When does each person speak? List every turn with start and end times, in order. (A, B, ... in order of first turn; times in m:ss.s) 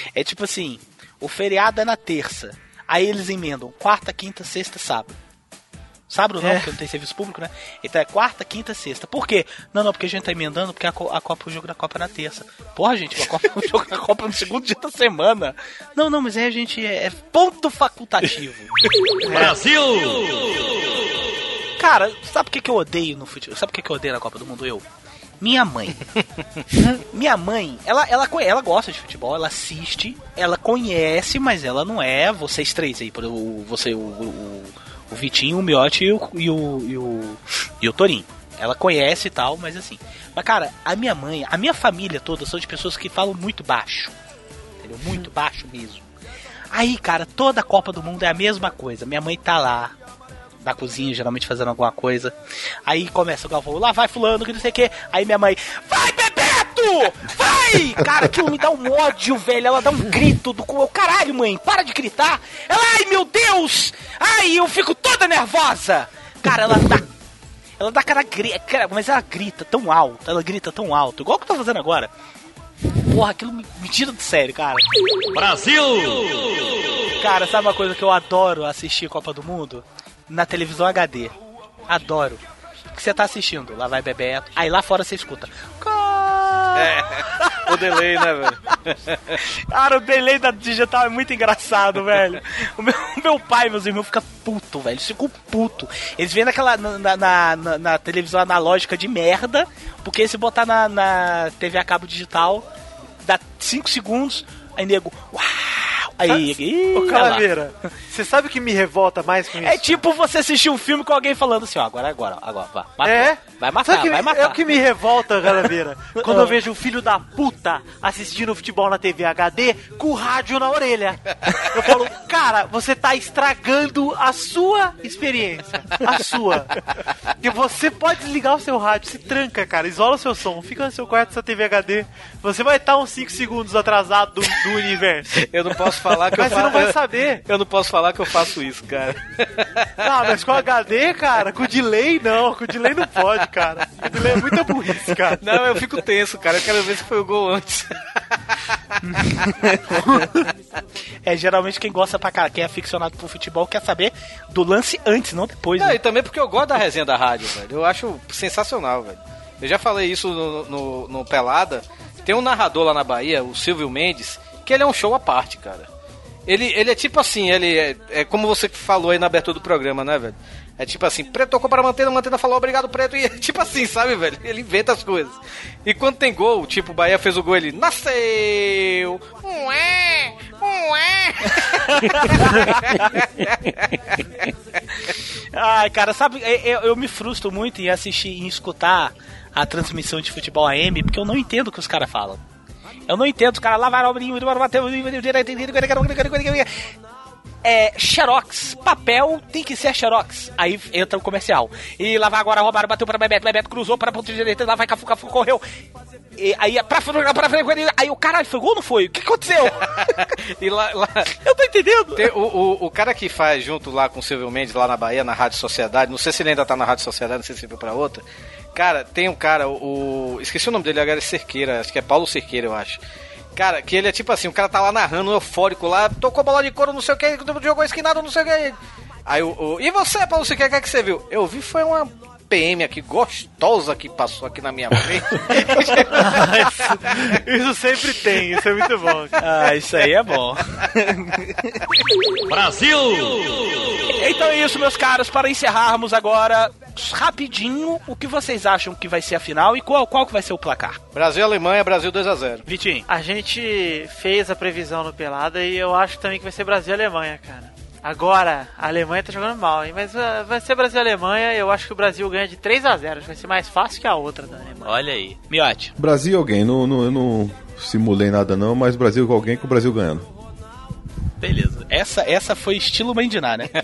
0:00.2-0:05.2 A
0:06.1-0:18.7 A
0:06.4-0:06.7 B
0:19.3-0:19.6 B
0:19.3-0:20.8 C
0:21.8-0:24.8 A
0:25.4-0:26.0 A
0:27.1-0:44.1 A
0:44.8-0:46.1 A
0:46.7-0:50.0 A
0:50.6-0:52.3 A
0:52.9-1:07.1 A
1:07.8-1:12.1 A
1:13.1-1:14.8 A
1:15.3-1:16.7 C
1:17.2-1:21.4 A
1:21.9-1:22.4 A
1:22.9-1:27.7 A
1:26.8-1:29.4 D
1:29.7-1:42.7 A
1:43.2-1:47.5 A
1:46.3-1:50.0 B
1:49.6-1:54.6 A
1:53.0-2:01.2 B
1:56.2-1:56.6 A
2:01.7-2:06.7 B
2:07.4-2:17.4 B
2:15.4-2:20.1 D
2:20.0-2:25.4 B
2:24.1-2:24.3 D
2:25.4-2:28.0 D
2:29.0-2:30.3 A
2:31.2-2:36.0 A
2:35.8-2:45.9 D
2:46.5-3:03.9 D
3:01.7-3:03.1 A
3:05.5-3:12.4 A
3:13.1-3:16.7 A
3:17.6-3:25.6 A
3:26.4-3:30.1 A
3:30.4-3:31.3 D
3:31.4-3:32.3 A
3:32.2-3:38.2 D
3:38.8-3:43.0 D
3:43.6-3:57.0 D
3:56.2-3:59.4 B
3:59.4-4:01.8 A
4:02.5-4:04.0 C
4:04.2-4:11.0 A
4:11.2-4:12.6 D
4:12.7-4:13.1 A
4:13.1-4:24.9 B
4:24.8-4:25.9 A
4:26.0-4:30.3 E
4:31.4-4:33.7 A